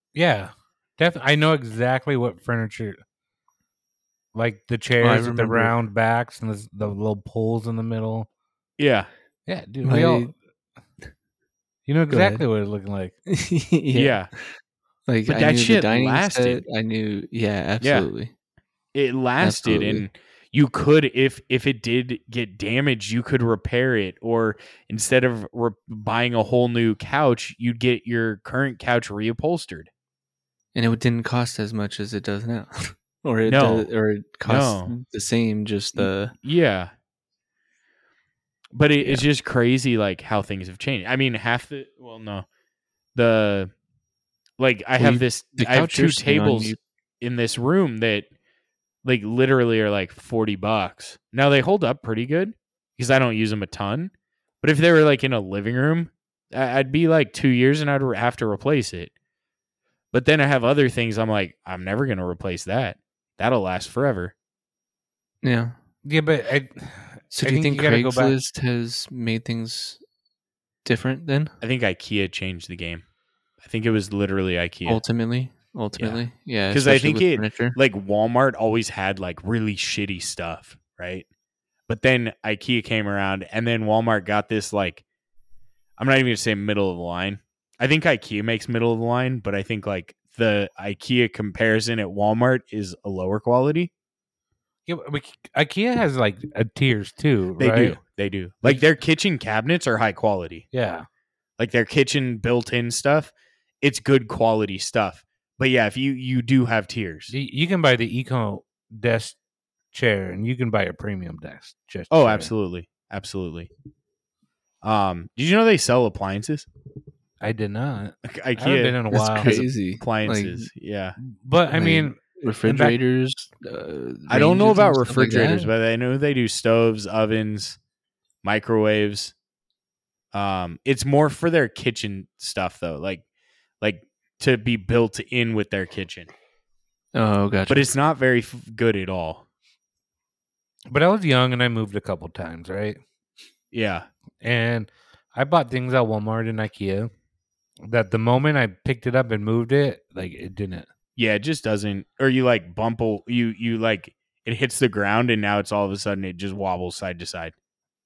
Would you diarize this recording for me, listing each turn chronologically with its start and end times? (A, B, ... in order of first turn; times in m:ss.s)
0:00.1-0:03.0 A
0:04.3-0:08.3 A
0:05.0-0:05.7 B
0:08.8-0:09.1 C
0:09.4-0:10.3 A
0:09.8-0:10.3 B
0:11.8-0:13.2 A
0:12.1-0:12.4 B
0:13.3-0:18.3 B
0:13.9-0:14.3 C
0:15.3-0:16.6 C
0:17.8-0:18.1 C
0:18.9-0:29.9 C
0:19.4-0:20.1 B
0:30.7-0:36.3 B
0:33.4-0:33.9 C
0:34.4-0:34.9 C
0:36.0-0:36.9 C
0:38.7-0:42.4 C
0:43.1-0:43.7 C
0:44.6-0:48.3 C
0:45.0-0:46.8 B
0:49.0-0:59.1 C
1:00.1-1:04.3 C
1:05.4-1:05.7 B
1:06.0-1:08.4 A
1:07.3-1:10.0 B
1:10.8-1:11.5 B
1:11.6-1:13.0 C
1:13.6-1:15.0 C
1:14.8-1:17.8 B
1:16.0-1:21.2 C
1:21.9-1:25.0 C
1:26.0-1:33.9 C
1:34.9-1:38.0 A
1:37.6-1:40.6 C
1:40.7-1:41.0 A
1:41.6-1:47.3 C
1:47.3-1:49.4 A
1:49.9-1:52.5 A
1:52.1-1:53.7 C
1:54.8-1:56.7 C
1:57.4-1:59.6 A
1:58.2-2:01.2 C
1:59.1-2:00.7 B
2:01.2-2:03.0 A
2:01.7-2:05.7 B
2:04.3-2:07.8 C
2:08.4-2:09.3 C
2:10.3-2:13.2 C
2:13.8-2:16.3 C
2:17.1-2:17.8 B
2:17.7-2:19.4 C
2:20.9-2:23.0 A
2:23.7-2:24.1 C
2:24.4-2:27.1 A
2:27.9-2:30.9 A
2:31.2-2:37.5 C